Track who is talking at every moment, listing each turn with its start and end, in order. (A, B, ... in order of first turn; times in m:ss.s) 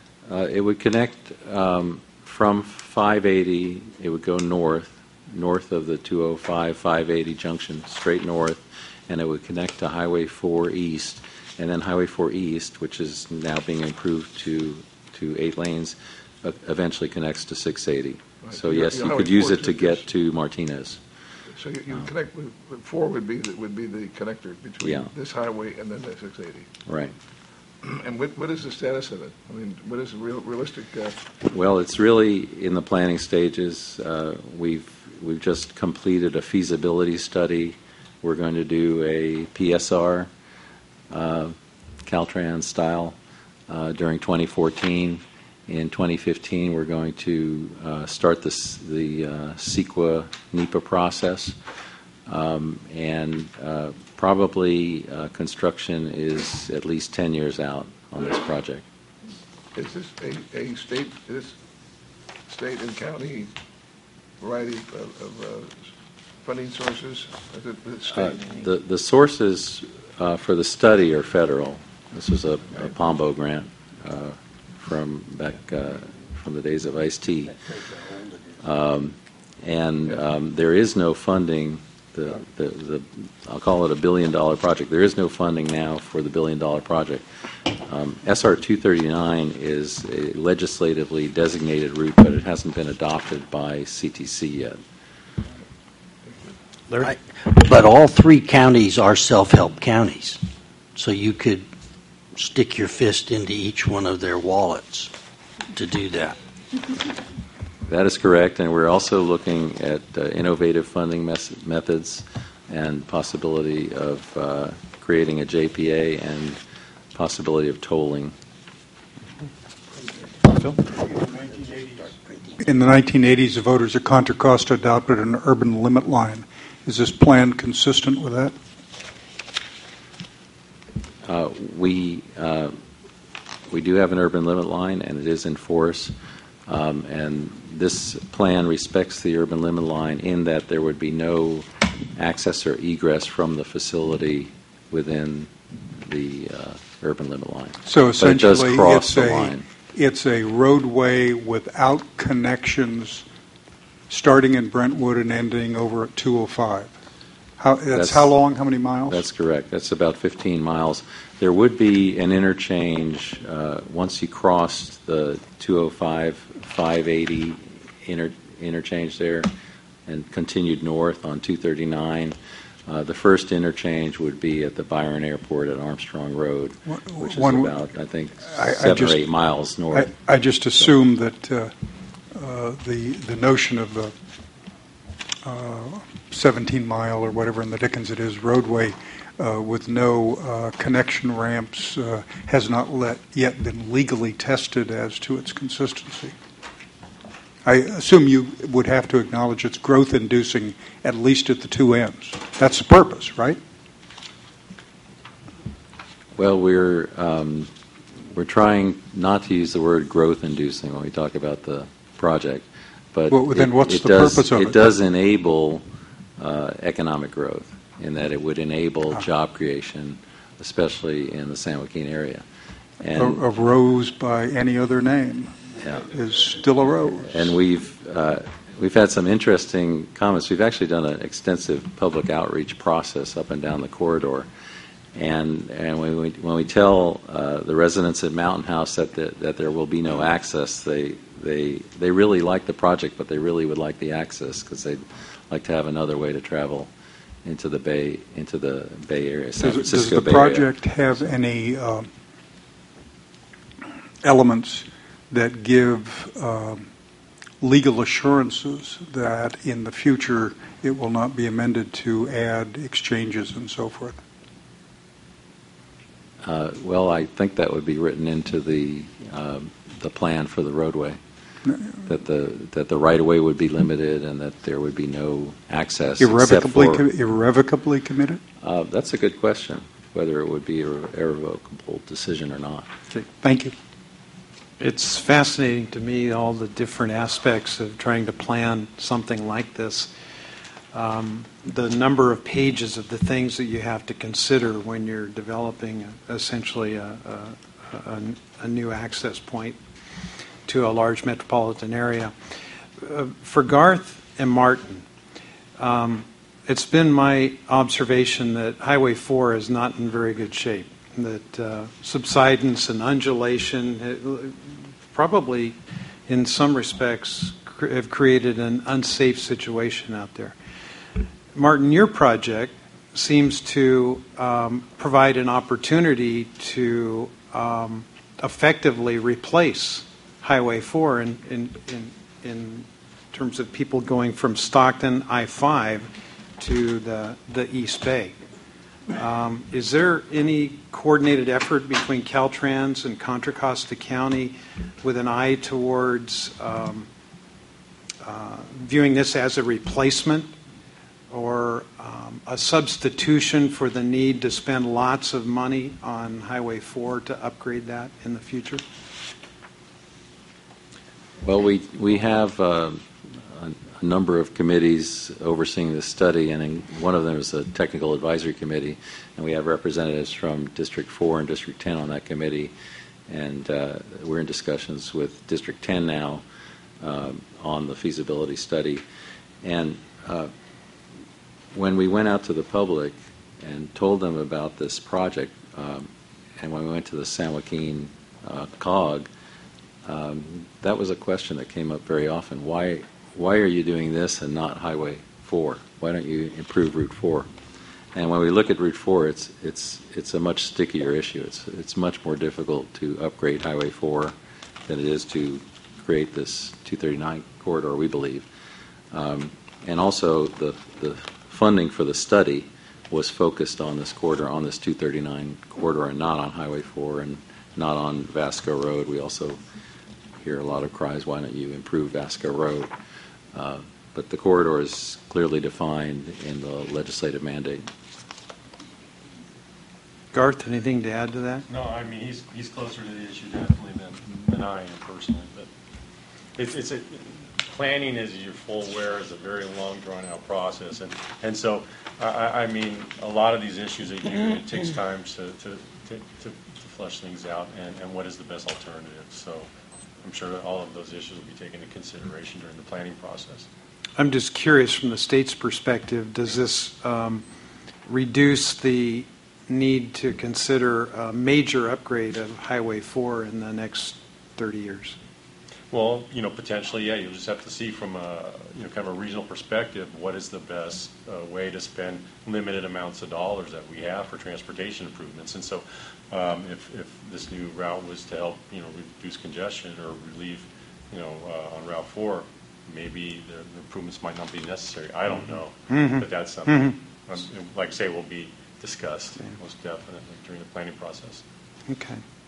0:00.3-0:21.0 A
0:18.4-0:20.0 B
0:21.5-0:26.7 B
0:24.8-0:25.1 A
0:26.8-0:27.1 A
0:27.8-0:31.2 B
0:31.4-0:40.3 A
0:41.1-0:43.2 A
0:43.7-0:51.6 A
0:52.3-0:58.8 A
0:59.7-1:01.6 B
1:02.5-1:03.5 B
1:04.4-1:05.9 B
1:06.4-1:08.4 B
1:08.1-1:17.6 A
1:17.6-1:18.4 C
1:18.6-1:34.8 A
1:36.3-1:36.5 B
1:37.0-1:40.4 C
1:41.0-1:41.7 C
1:42.3-1:45.1 C
1:45.7-1:46.4 C
1:47.9-1:56.6 A
1:57.1-1:58.3 A
2:00.5-2:02.6 C
2:02.6-2:08.5 D
2:11.2-2:12.8 A
2:13.7-2:16.1 A
2:16.7-2:29.6 A
2:27.8-2:33.2 D
2:34.1-2:36.9 D
2:37.6-2:39.2 D
2:37.9-2:38.3 A
2:39.1-2:49.5 A
2:50.1-3:00.1 A
2:56.9-2:57.8 D
2:58.6-2:59.2 D
2:59.9-3:01.7 D
3:02.3-3:04.1 D
3:05.4-3:16.4 D
3:17.6-3:23.6 D
3:26.4-3:27.7 A
3:28.3-3:35.8 A
3:33.3-3:34.8 D
3:36.4-3:42.4 A
3:43.0-3:43.4 A
3:43.2-3:47.4 D
3:47.2-3:54.5 A
3:55.1-4:06.9 A
4:07.4-4:11.3 A
4:09.6-4:12.1 D
4:14.2-4:16.9 D
4:17.6-4:24.2 D
4:26.4-4:31.2 A
4:31.7-4:32.0 D
4:32.0-4:37.0 A
4:36.2-4:38.4 D
4:38.6-4:42.9 A
4:43.1-4:43.7 D
4:44.8-4:50.1 E
4:50.9-4:59.8 E
5:00.6-5:02.3 E
5:03.0-5:05.1 E
5:05.8-5:20.6 E
5:21.5-5:38.4 E
5:39.1-5:47.1 E
5:48.2-5:50.5 E
5:51.3-5:58.8 E
6:01.4-6:12.7 A
6:13.3-6:16.4 A
6:17.0-6:19.0 A
6:19.6-6:20.5 A
6:21.7-6:26.1 A
6:26.6-6:29.3 A
6:30.0-6:37.5 A
6:38.1-6:44.3 A
6:44.9-6:48.5 A
6:49.1-6:59.6 A
7:00.4-7:02.9 A
7:03.5-7:07.8 A
7:10.3-7:11.6 E
7:11.7-7:15.7 F
7:16.6-7:29.7 F
7:30.2-7:33.7 F
7:34.2-7:37.4 E
7:38.0-7:45.2 E
7:45.9-8:11.4 F
8:05.9-8:07.0 E
8:11.9-8:12.2 E